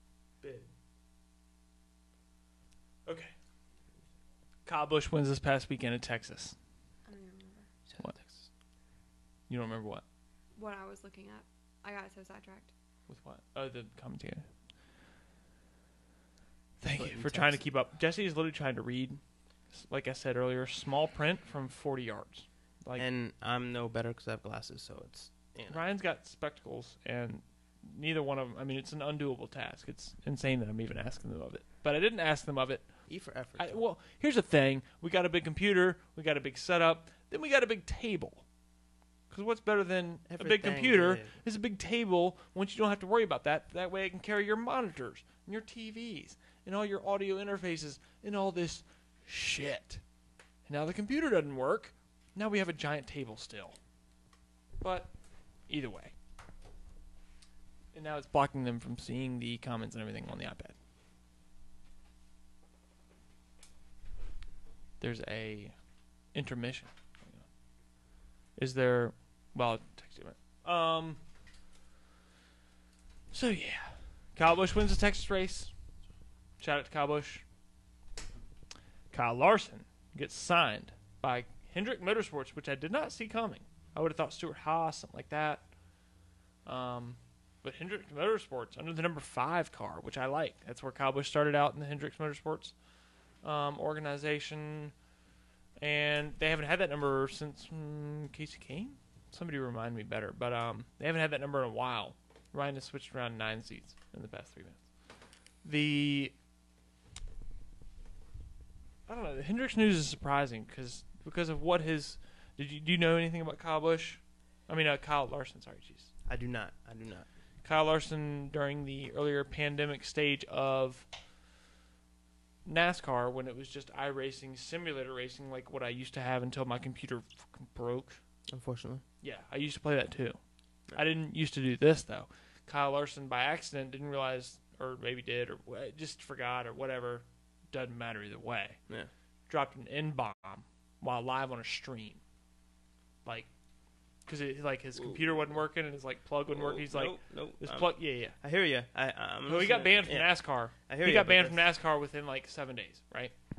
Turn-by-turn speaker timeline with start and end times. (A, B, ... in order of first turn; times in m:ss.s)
0:00.4-0:00.7 A
0:03.1-0:03.3 A
0:04.7-0:06.6 A
0:07.1-0:07.7 B
0:07.9-0:08.5 C
0:09.5-0:10.0 A
0:10.6-0:12.7 B
0:13.1-0:14.5 A
0:16.8-0:19.2 A
0:17.0-0:17.6 C
0:19.7-0:23.1 A
0:23.0-0:25.8 C
0:25.7-0:32.9 A
0:33.1-0:33.8 C
0:33.6-0:38.4 A
0:39.3-0:50.0 A
0:40.3-0:41.4 C
0:50.7-0:53.8 A
0:54.8-0:55.1 A
0:55.7-0:56.1 A
0:57.9-1:00.8 A
1:05.0-1:05.8 A
1:06.3-1:07.5 A
1:08.6-1:11.2 A
1:13.3-1:15.7 A
1:16.6-1:17.4 A
1:19.1-1:25.6 A
1:26.7-1:32.7 A
1:33.4-1:34.9 A
1:35.8-1:44.8 A
1:45.6-1:46.3 A
1:49.1-1:56.1 A
1:56.3-1:57.3 C
1:57.6-2:01.1 A
2:02.6-2:08.2 A
2:08.5-2:09.0 C
2:09.2-2:10.4 A
2:11.0-2:18.8 A
2:19.5-2:22.2 A
2:24.3-2:28.4 A
2:25.0-2:25.4 C
2:26.5-2:30.3 C
2:29.5-2:33.3 A
2:30.9-2:31.7 C